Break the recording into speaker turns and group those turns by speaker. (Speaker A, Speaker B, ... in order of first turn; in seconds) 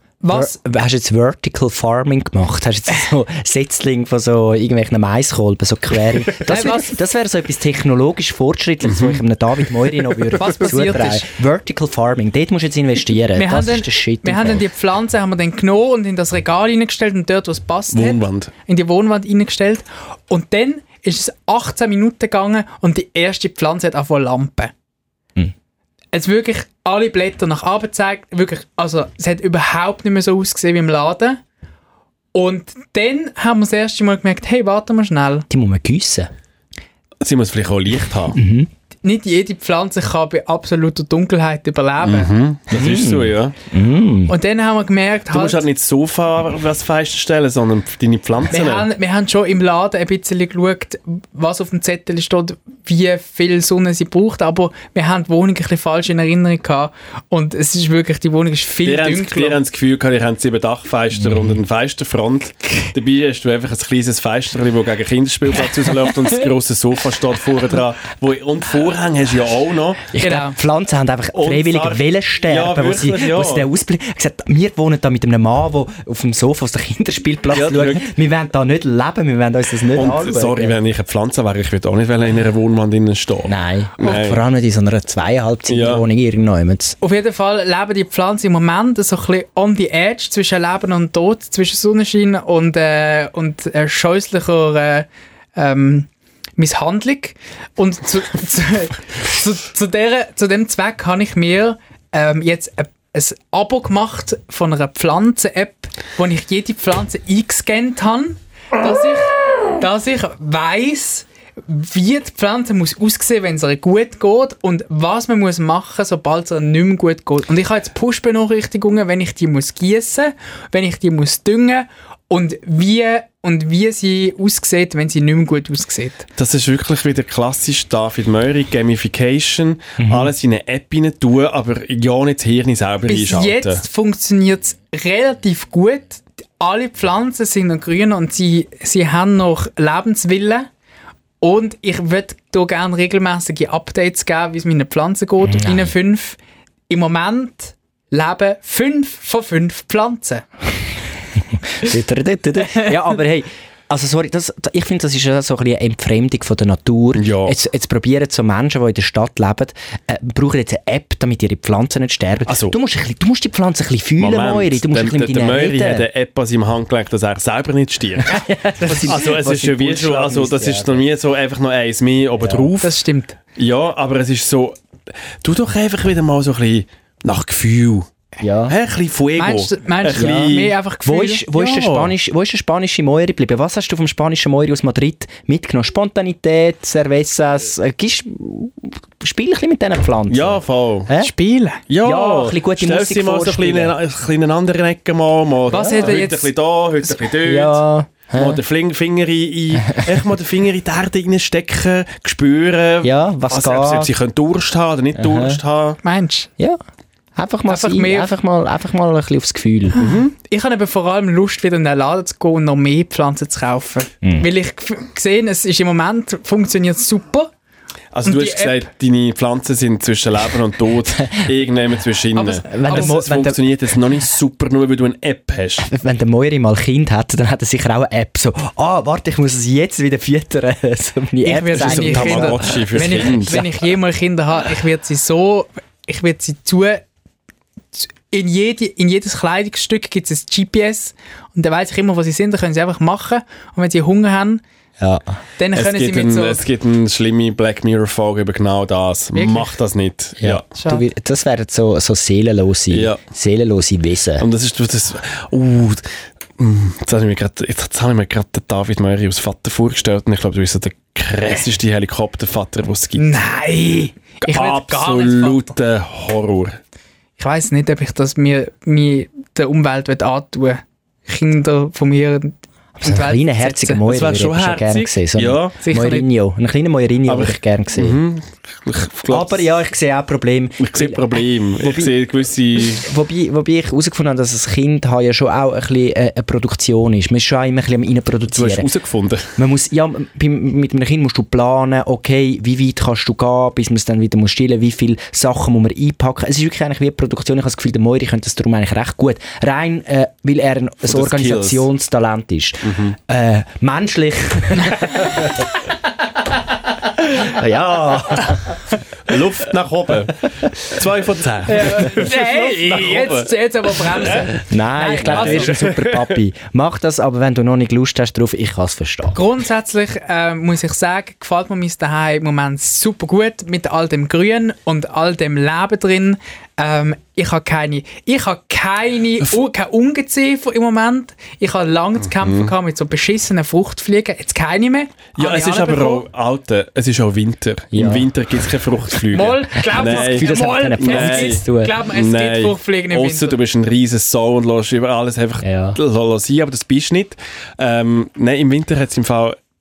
Speaker A: 0.2-0.6, 6.5-7.0, 10.3-11.3, 13.3-24.7, 26.1-31.4, 32.3-35.5, 39.0-42.3, 44.3-45.6, 48.5-59.6, 70.2-70.6, 87.0-126.3, 133.1-140.7, 141.4-150.4, 172.8-173.4, 179.4-181.5, 191.2-191.8, 195.7-196.5, 206.0-206.5, 207.7-208.3, 209.9-217.5, 218.2-218.9, 222.3-223.2, 231.4-237.1, 238.0-244.6, 245.6-246.6, 249.3-249.7, 250.8-251.1, 263.2-265.7, 267.4-274.0, 275.8-276.3, 311.7-315.8, 319.3-336.3, 339.3-343.6
Speaker B: 0.3-14.7, 35.5-36.3, 38.3-38.7, 42.7-44.3, 61.2-61.6, 70.1-80.8, 83.5-87.0, 130.0-130.3, 145.4-145.9, 151.7-166.1, 168.3-171.0, 172.4-172.7, 178.4-178.8, 180.2-191.3, 192.0-193.9, 197.3-198.6, 199.8-200.2, 203.0-204.1, 205.2-205.6, 207.4-210.0, 222.7-223.6, 225.8-233.8, 245.0-245.4, 250.4-254.5, 273.0-278.2, 279.3-282.1, 282.8-288.9, 289.6-305.7, 307.2-308.8, 314.5-319.4, 337.9-338.3, 339.9-342.0, 345.6-346.0
Speaker C: 8.9-9.2, 17.9-18.5, 37.2-38.4, 42.0-43.5, 45.3-48.9, 58.8-70.1, 71.3-73.7, 77.5-78.1, 79.9-84.4, 85.7-86.0, 126.4-133.8, 157.2-157.6, 162.5-162.7, 164.2-173.0, 173.6-174.8, 175.4-178.1, 178.7-180.8, 181.5-182.1, 190.3-191.1, 191.9-197.8, 198.3-206.0, 210.0-210.3, 218.1-225.9, 231.8-233.6, 245.7-250.7, 252.9-253.2, 254.4-256.1, 256.6-263.4, 264.4-266.8, 274.1-275.8, 277.3-279.7, 280.8-283.1, 288.5-289.5, 301.1-301.9, 302.8-303.2, 309.3-314.5, 315.2-316.4, 332.4-332.7, 335.4-349.6